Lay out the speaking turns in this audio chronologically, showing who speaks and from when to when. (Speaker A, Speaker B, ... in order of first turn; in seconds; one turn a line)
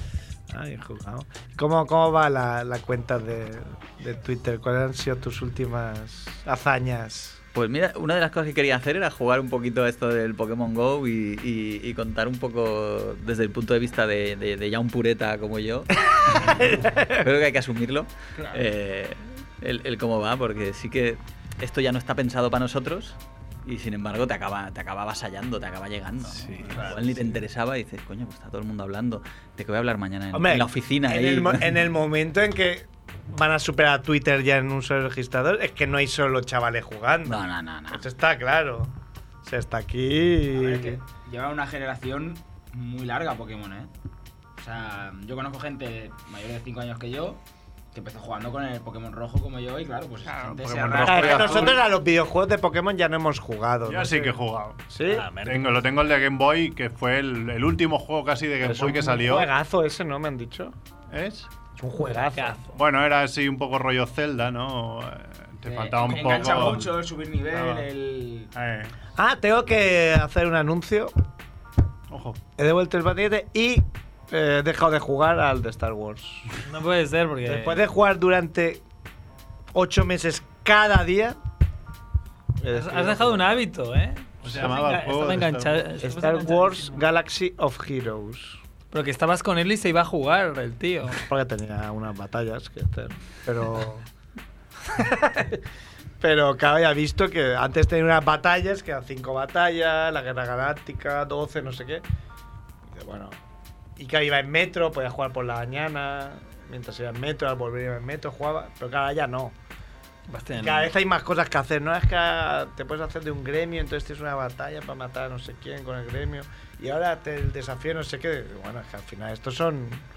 Speaker A: 0.5-7.4
Speaker B: 7.5-31.8
Speaker A: 16.0-17.2
Speaker C: 26.4-26.8
Speaker A: 26.7-27.3
Speaker A: 30.3-41.0
Speaker B: 37.2-38.0
Speaker D: 40.5-43.9
Speaker D: 44.6-47.4
Speaker D: 47.9-51.8
Speaker C: 50.2-51.8
Speaker A: 51.0-54.4
Speaker C: 53.9-54.8
Speaker A: 54.9-55.3
Speaker E: 55.0-55.8
Speaker C: 55.4-59.5
Speaker A: 58.6-60.8
Speaker C: 61.1-61.5
Speaker A: 61.8-62.6
Speaker E: 62.3-62.7
Speaker C: 62.7-67.9
Speaker D: 65.6-68.5
Speaker A: 66.3-66.6
Speaker C: 68.5-68.9
Speaker A: 69.2-71.1
Speaker C: 72.1-72.4
Speaker A: 72.6-76.5
Speaker E: 76.6-77.8
Speaker A: 77.4-78.8
Speaker A: 79.7-81.4
Speaker A: 82.6-83.6
Speaker E: 82.7-87.0
Speaker C: 84.4-85.8
Speaker A: 86.0-88.6
Speaker E: 88.9-91.2
Speaker A: 91.2-94.0
Speaker A: 94.9-95.6
Speaker A: 96.2-102.0
Speaker A: 102.9-103.4
Speaker A: 104.0-109.5
Speaker E: 110.3-110.9
Speaker A: 110.5-120.0